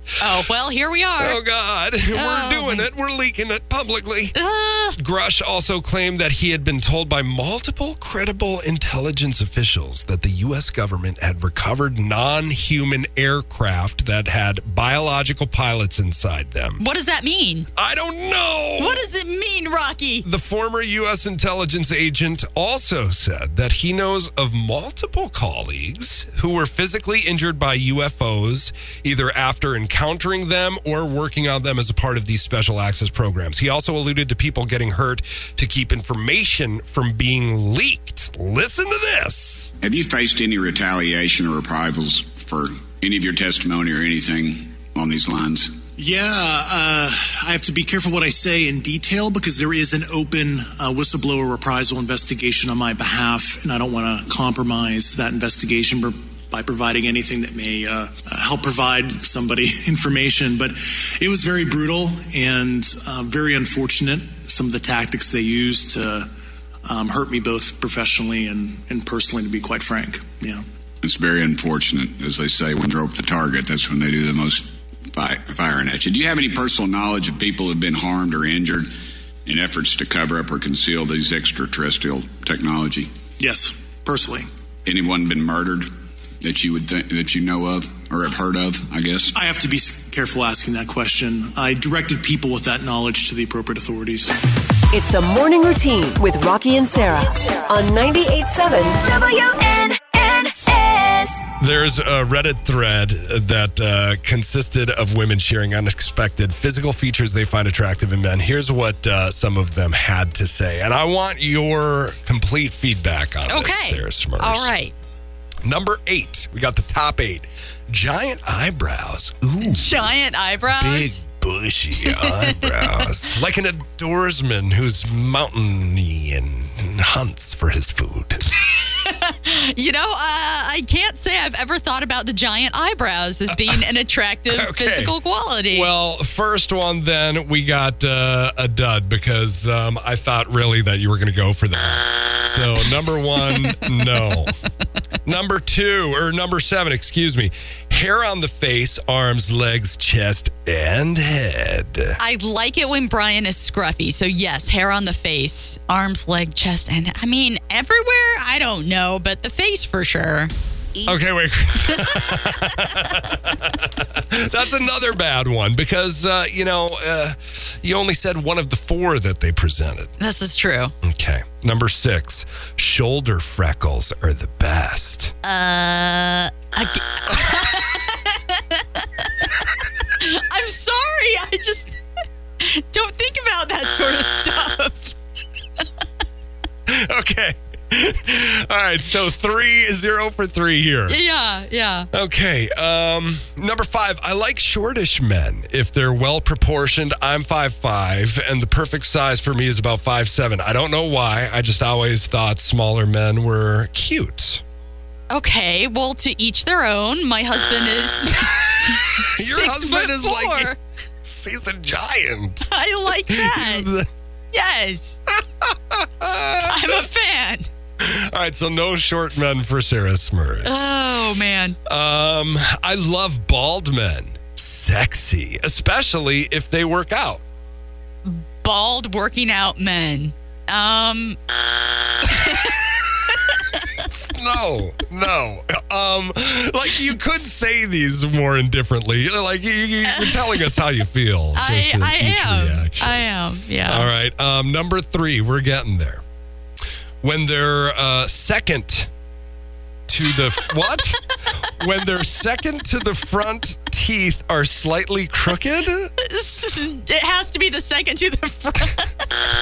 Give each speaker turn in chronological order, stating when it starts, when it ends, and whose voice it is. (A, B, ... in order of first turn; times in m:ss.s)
0:00.2-0:01.4 A
0:01.2-0:04.3 B
0:02.1-0:02.9 A
0:04.3-0:05.0 A
0:05.0-0:16.8 B
0:16.8-0:17.7 A
0:17.8-0:19.0 B
0:18.8-0:20.2 A
0:20.2-0:39.7 B
0:39.8-0:45.8 C
0:46.0-1:06.3 D
1:06.8-1:10.6 D
1:11.0-1:18.9 C
1:19.4-1:23.1 C
1:23.4-1:24.5 D
1:24.8-1:25.9 C
1:26.4-1:29.3 C
1:29.3-1:34.3 D
1:34.9-1:39.3 E
1:41.6-1:54.7 B
1:53.5-1:54.9 A
1:55.6-2:00.1 B
1:59.6-2:01.2 A
2:00.7-2:08.4 B
2:02.0-2:03.1 A
2:08.7-2:15.9 A
2:13.5-2:13.8 B
2:14.5-2:15.2 B
2:15.7-2:24.6 B
2:23.5-2:24.1 A
2:25.2-2:32.2 B
2:32.2-2:41.0 A
2:41.0-2:50.1 B
2:41.9-2:43.1 A
2:50.2-2:50.9 A
2:51.0-2:55.3 B
2:55.4-2:59.5 A
3:00.1-3:02.0 A
3:02.6-3:05.1 A
3:06.9-3:11.2 B
3:11.1-3:12.1 A
3:12.1-3:24.6 B
3:25.3-3:30.8 A
3:28.2-3:32.7 B
3:32.7-3:33.9 A
3:33.3-3:34.1 B
3:34.5-3:35.2 A
3:35.3-3:37.0 B
3:36.6-3:37.7 A
3:38.0-3:40.9 B
3:40.6-3:41.8 A
3:41.8-3:47.4 B
3:48.2-3:51.4 A
3:52.2-3:54.0 A
3:52.4-3:52.8 B
3:53.9-4:03.2 B
4:00.0-4:00.8 A
4:01.5-4:04.1 A
4:03.8-4:06.2 B
4:07.2-4:09.1 B
4:10.1-4:16.1 B
4:10.3-4:10.6 A
4:16.2-4:19.3 A